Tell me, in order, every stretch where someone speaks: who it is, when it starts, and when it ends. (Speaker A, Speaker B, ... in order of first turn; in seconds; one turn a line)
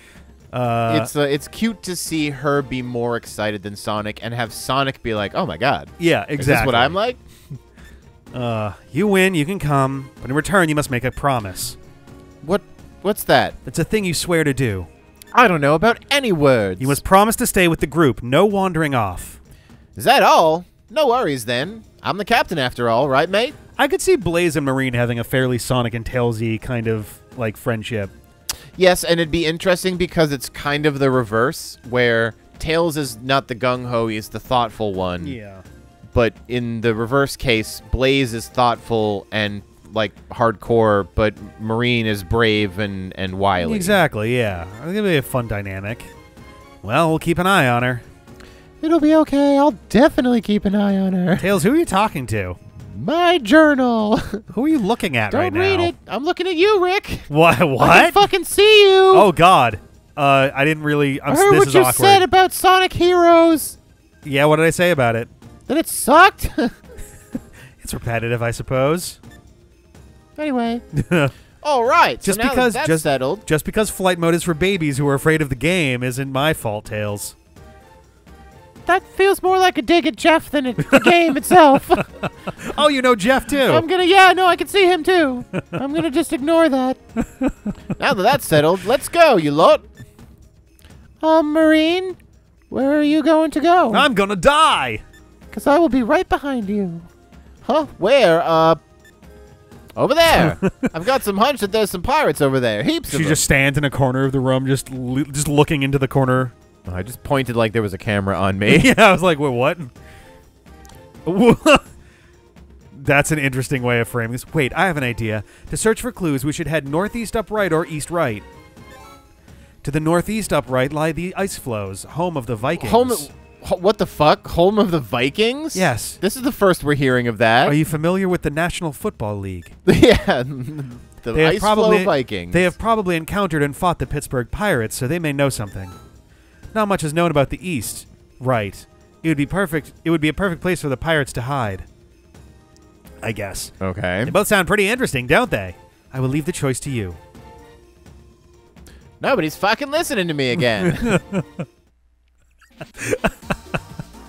Speaker A: 0.5-1.1
Speaker B: 0.9-7.2
Speaker A: 6.0-7.0
Speaker A: 8.3-11.8
Speaker B: 12.4-13.6
Speaker A: 13.7-14.9
Speaker B: 15.3-17.0
Speaker A: 16.8-19.4
Speaker B: 20.0-23.6
Speaker A: 23.8-28.1
Speaker B: 28.8-35.4
Speaker A: 35.2-35.6
Speaker B: 36.1-44.0
Speaker A: 43.6-46.1
Speaker A: 46.8-48.0
Speaker B: 48.8-51.5
Speaker A: 51.4-52.6
Speaker B: 52.8-54.5
Speaker A: 54.5-55.9
Speaker B: 55.3-59.3
Speaker A: 57.3-58.2
Speaker A: 59.1-62.2
Speaker B: 61.3-63.8
Speaker A: 64.2-65.3
Speaker B: 65.7-66.8
Speaker A: 67.8-69.2
Speaker B: 70.4-70.8
Speaker A: 70.9-71.3
Speaker B: 71.6-73.5
Speaker A: 72.2-77.4
Speaker B: 78.9-82.1
Speaker A: 80.8-81.1
Speaker A: 82.0-83.8
Speaker B: 83.7-87.0
Speaker A: 87.4-87.7
Speaker B: 88.0-89.8
Speaker B: 91.2-92.2
Speaker B: 92.7-94.1
Speaker A: 93.9-95.0
Speaker B: 95.5-97.1
Speaker B: 97.6-98.8
Speaker B: 100.0-103.4
Speaker A: 100.3-100.9
Speaker A: 103.1-106.5
Speaker B: 106.9-108.9
Speaker A: 108.7-109.9
Speaker A: 111.3-111.8
Speaker A: 112.9-118.5
Speaker A: 119.8-123.3
Speaker B: 122.8-127.8
Speaker A: 125.7-126.2
Speaker A: 127.7-129.8
Speaker B: 129.8-132.7
Speaker A: 131.3-136.0
Speaker A: 136.7-141.9
Speaker A: 143.2-147.2
Speaker B: 143.8-144.3
Speaker B: 149.2-151.2
Speaker A: 150.8-151.7
Speaker A: 153.0-153.5